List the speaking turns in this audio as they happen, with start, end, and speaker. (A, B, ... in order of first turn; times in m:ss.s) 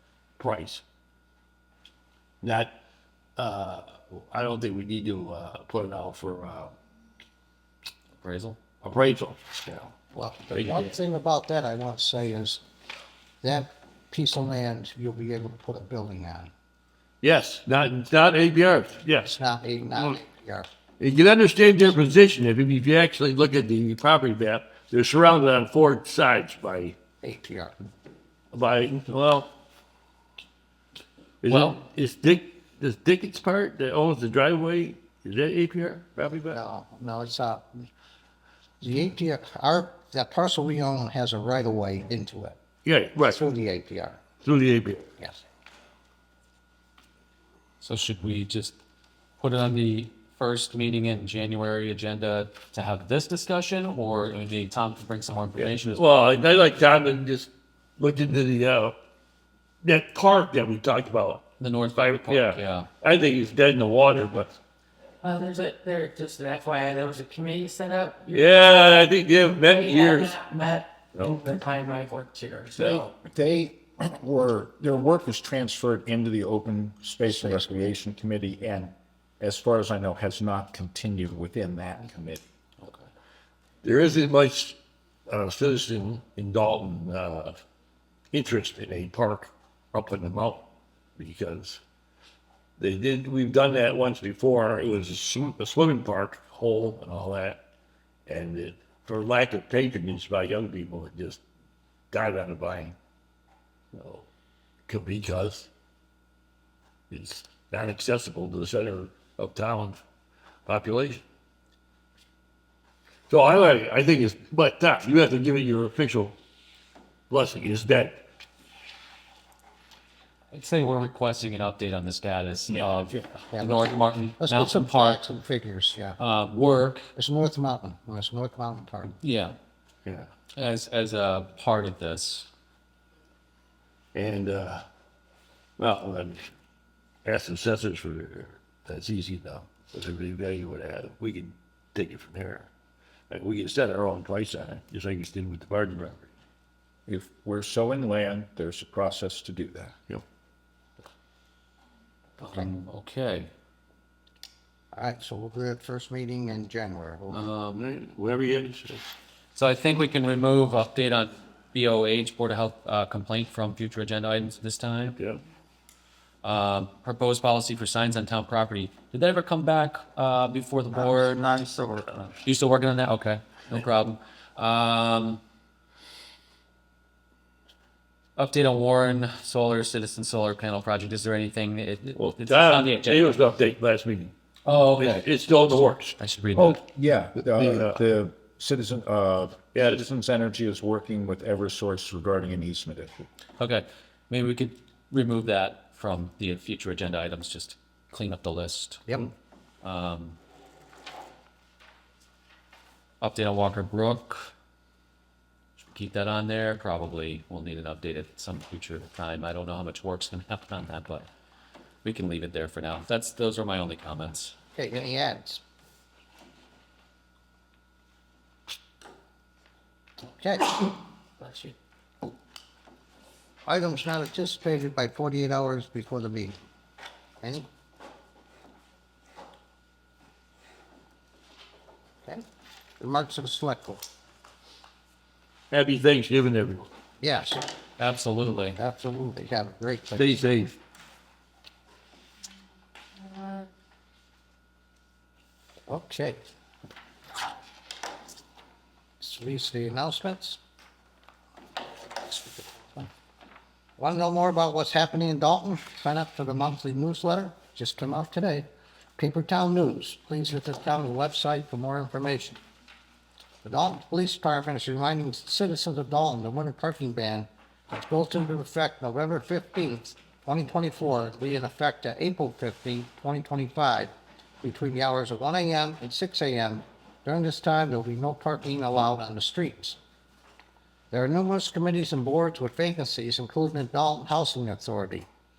0:00.4-0:00.8 A
0:02.4-0:02.7 A
0:03.4-0:06.7 A
0:08.2-0:08.6 B
0:08.8-0:10.0 A
0:10.1-0:12.6 C
0:10.5-0:10.9 A
0:13.4-0:16.5 C
0:17.2-0:19.4 A
0:19.2-0:20.7 C
0:21.0-0:27.0 A
0:27.2-0:27.8 C
0:28.5-0:29.5 A
0:31.4-0:36.6 A
0:31.5-0:31.8 B
0:36.5-0:37.9 C
0:38.8-0:42.6 C
0:42.8-0:43.4 A
0:43.2-0:44.2 C
0:44.4-0:45.1 A
0:47.8-0:48.8 B
0:49.4-0:56.1 B
0:55.6-0:59.0 A
0:59.8-1:04.6 A
1:01.6-1:02.9 B
1:05.2-1:13.1 D
1:08.3-1:10.4 A
1:12.8-1:22.4 E
1:23.8-1:27.6 A
1:28.3-1:31.8 A
1:32.8-1:37.6 A
1:38.3-1:41.4 A
1:42.1-1:43.0 A
1:43.9-1:44.3 A
1:44.9-1:45.7 A
1:47.1-1:50.0 A
1:50.7-1:51.2 A
1:53.3-1:56.4 A
1:57.3-1:58.2 A
2:00.5-2:05.2 B
2:03.5-2:06.2 C
2:06.2-2:07.1 B
2:07.2-2:09.2 C
2:09.2-2:09.6 B
2:10.0-2:10.3 A
2:10.5-2:12.5 B
2:14.1-2:14.8 A
2:15.8-2:16.5 A
2:17.2-2:22.7 A
2:23.3-2:26.3 A
2:27.1-2:30.0 E
2:32.4-2:33.5 B
2:34.9-2:37.4 C
2:37.3-2:37.8 B
2:37.7-2:39.1 A
2:39.6-2:45.2 B
2:45.2-2:45.4 A
2:46.4-2:51.6 B
2:51.6-2:52.3 C
2:52.4-2:55.4 B
2:58.4-3:03.4 B
3:02.2-3:04.3 A
3:04.7-3:05.3 B
3:05.0-3:06.2 A
3:06.2-3:06.8 B
3:06.6-3:13.2 E
3:07.4-3:08.0 A
3:09.7-3:10.0 A
3:13.6-3:19.3 B
3:19.8-3:20.4 B
3:23.2-3:24.5 B
3:25.8-3:31.3 B
3:32.0-3:34.5 B
3:34.8-3:35.6 C
3:40.3-3:41.0 C
3:43.6-3:46.6 C
3:47.4-3:47.7 C
3:53.0-3:54.0 C
3:55.7-3:56.9 A
3:57.2-3:57.6 C
3:58.0-3:58.8 B
3:58.8-4:00.4 C
4:00.2-4:00.8 A
4:05.9-4:06.4 C
4:09.2-4:10.6 C
4:12.2-4:13.1 C
4:14.0-4:22.6 C
4:23.6-4:40.0 C
4:41.1-4:45.3 C